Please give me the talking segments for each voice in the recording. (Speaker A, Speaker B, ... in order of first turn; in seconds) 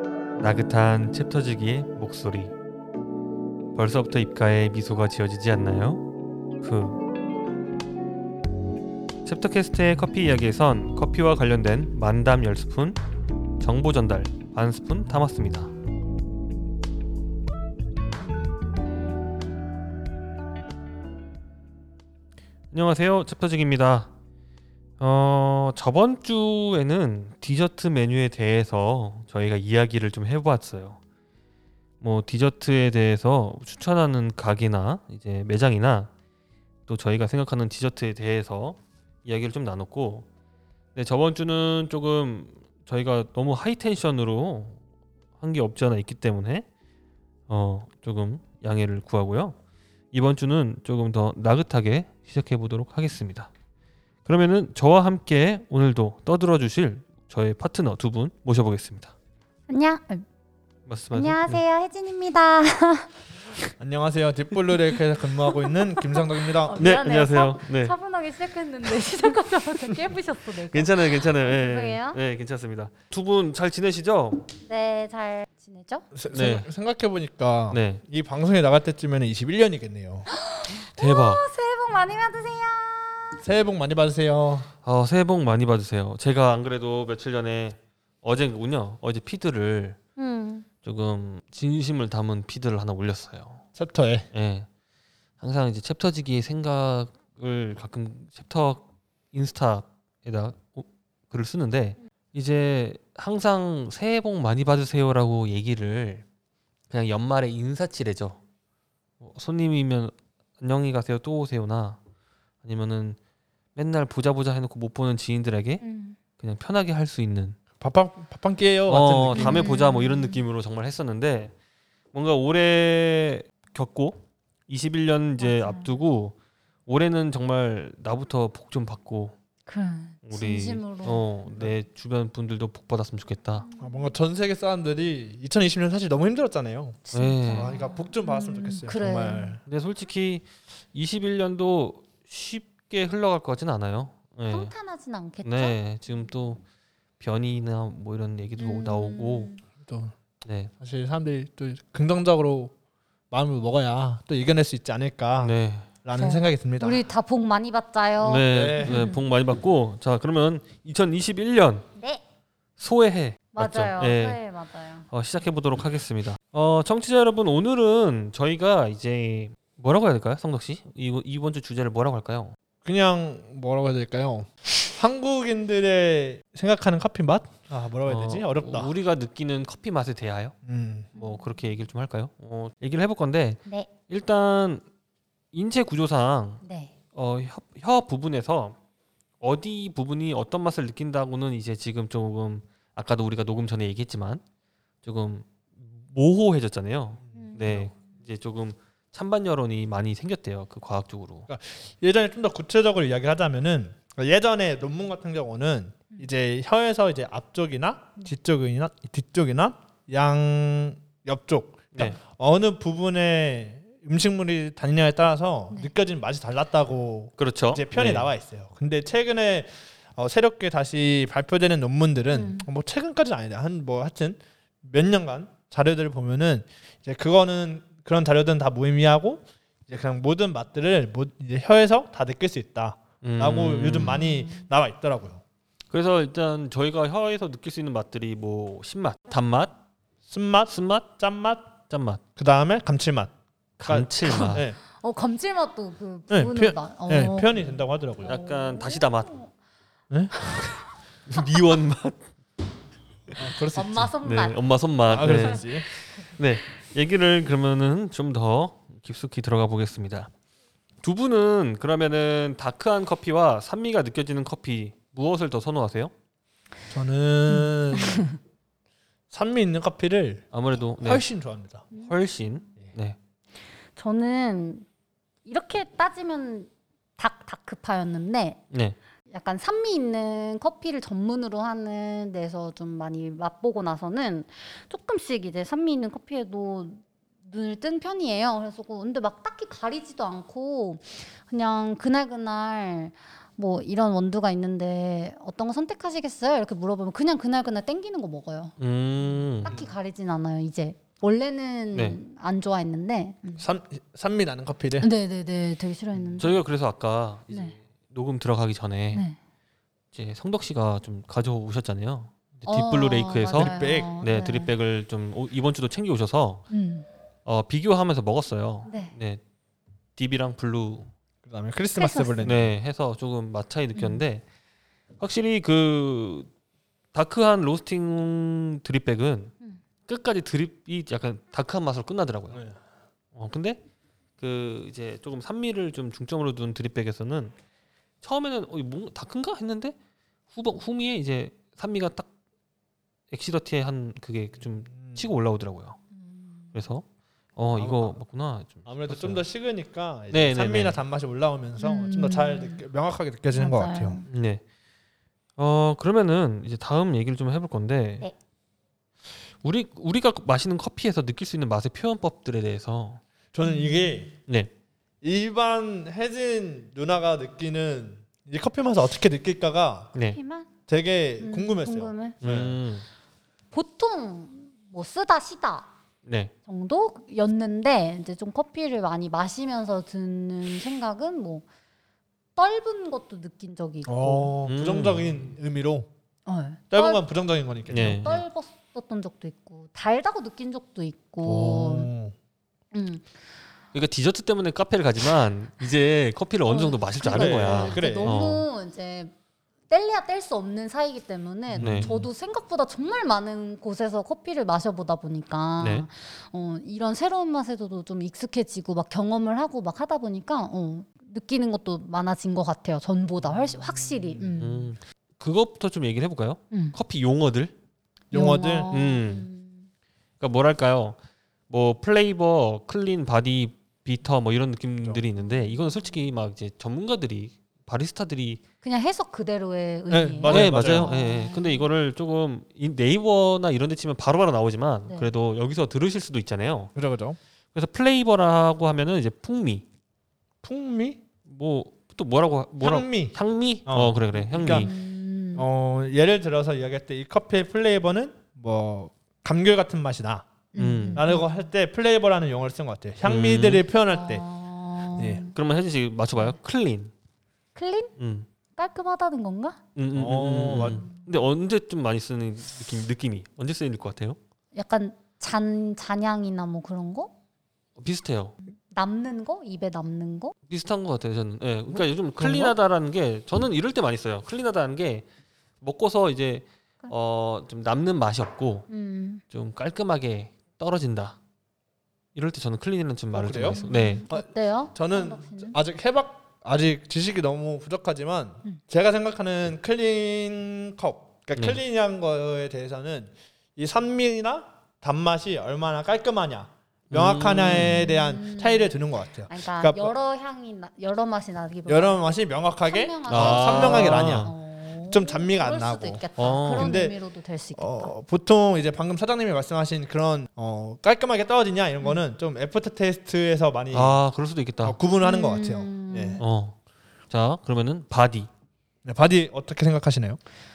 Speaker A: 0.4-2.5, 3.8-6.0, 6.6-7.0, 9.2-13.0, 13.6-15.7, 22.7-24.1, 25.0-31.0, 32.0-36.1, 36.9-40.3, 41.0-44.8, 45.4-46.7, 47.5-49.6, 50.1-53.5, 54.3-59.1, 60.9-61.6, 66.8-68.0, 70.7-74.5, 76.3-76.7, 77.7-78.0, 80.8-81.4, 84.8-90.0, 90.8-93.6, 94.3-94.7, 95.4-106.2, 106.9-108.4, 109.2-112.0, 112.6-113.2, 113.8-115.8, 116.4-117.6, 118.9-121.5, 122.1-126.4, 126.9-129.3, 130.2-133.7, 137.1-137.8, 139.7-144.7, 145.4-146.6, 147.2-149.5, 150.4-150.7, 155.4-155.9, 158.2-161.9, 162.8-164.4, 165.1-172.6, 178.1-180.6, 181.2-184.8, 185.5-186.6, 187.1-188.8, 189.4-194.4, 195.0-201.5, 217.4-218.3, 233.2-234.2, 235.9-239.8, 240.7-241.2, 241.9-242.2, 243.8-244.7, 248.3-249.3, 251.3-252.3, 254.2-260.3, 261.0-266.1, 270.5-271.3, 272.0-273.2, 278.7-279.0, 298.8-299.8, 301.9-302.2, 306.4-309.2, 310.1-316.6, 317.5-319.4, 320.2-321.1, 322.4-324.4, 325.2-326.5, 327.1-329.5, 330.1-332.6, 333.4-333.8, 334.4-337.5, 338.2-339.9, 340.5-342.3, 343.3-346.0, 346.7-347.1, 347.6-349.4, 350.3-351.0, 354.3-354.6, 355.6-358.3, 359.6-363.2, 372.4-373.1, 376.2-376.5, 384.7-385.4, 387.9-388.4, 393.9-398.7, 401.8-402.1, 405.8-406.1, 414.6-417.8, 418.9-419.5, 420.4-421.2, 421.7-428.6, 430.4-436.9, 437.7-439.9, 441.5-444.9, 450.8-451.2, 453.2-453.8, 455.5-457.1, 458.2-458.5, 460.0-464.4, 468.0-468.6, 470.7-475.2, 475.8-478.9, 479.5-481.4, 482.4-484.2, 497.1-498.0, 503.3-504.5, 506.4-506.9, 513.9-515.0, 516.4-516.8, 517.3-518.5
Speaker B: 59.7-60.2, 61.1-63.1, 65.5-72.2, 74.7-76.0, 80.3-83.4, 90.2-90.7, 115.8-116.2, 119.3-120.4, 125.4-125.9, 129.7-131.2, 133.6-134.2, 137.1-139.6, 144.5-145.8, 148.6-149.6, 156.2-159.2, 162.0-162.2, 163.5-165.1, 181.2-181.7, 186.6-186.9, 197.3-197.8, 222.3-222.7, 234.0-234.7, 244.2-247.6, 248.2-249.5, 250.4-250.8, 253.7-254.6, 267.6-268.4, 274.0-274.9, 275.5-278.6, 279.3-298.8, 299.6-303.6, 305.0-306.6, 307.5-307.8, 312.7-314.7, 316.7-317.1, 318.9-319.1, 322.0-322.5, 323.9-324.2, 346.2-346.7, 351.8-352.8, 353.6-354.2, 363.6-364.2, 370.3-370.7, 371.4-372.4, 373.7-375.9, 376.7-381.6, 382.6-384.6, 386.5-387.2, 387.9-392.1, 392.9-393.3, 396.7-399.3, 399.9-414.9, 416.7-417.0, 418.3-419.9, 425.4-425.8, 428.8-431.9, 444.7-445.7, 450.7-451.5, 454.1-455.6, 457.8-458.1, 458.8-459.8, 460.9-461.2, 464.7-467.3, 468.9-470.5, 478.9-479.4, 483.7-485.8, 497.6-498.9, 499.5-502.3, 502.9-508.1, 515.2-516.4
Speaker C: 63.8-66.8, 76.1-80.3, 83.4-84.7, 93.8-94.3, 117.8-119.7, 133.8-139.6, 149.8-150.1, 150.8-152.7, 153.3-157.0, 158.5-159.0, 172.8-178.9, 180.7-181.1, 197.3-197.9, 201.5-235.4, 240.3-241.7, 242.4-243.3, 243.9-244.8, 246.3-248.4, 250.1-250.7, 253.4-254.1, 255.1-255.9, 266.9-268.3, 269.3-270.5, 271.0-271.9, 303.6-305.1, 313.5-314.1, 321.4-322.7, 344.9-345.3, 347.8-348.2, 348.9-354.2, 363.5-364.3, 365.2-370.1, 370.9-372.8, 384.1-386.1, 386.9-388.4, 391.4-392.3, 397.3-398.4, 401.7-402.3, 413.6-414.6, 418.3-418.9, 430.1-431.1, 437.0-437.4, 440.6-441.2, 442.8-444.9, 445.6-450.5, 451.1-454.4, 455.2-455.4, 460.1-461.1, 472.4-472.8, 483.3-500.1, 501.9-504.6, 505.1-507.2, 507.8-514.2, 514.8-516.4, 519.0-520.4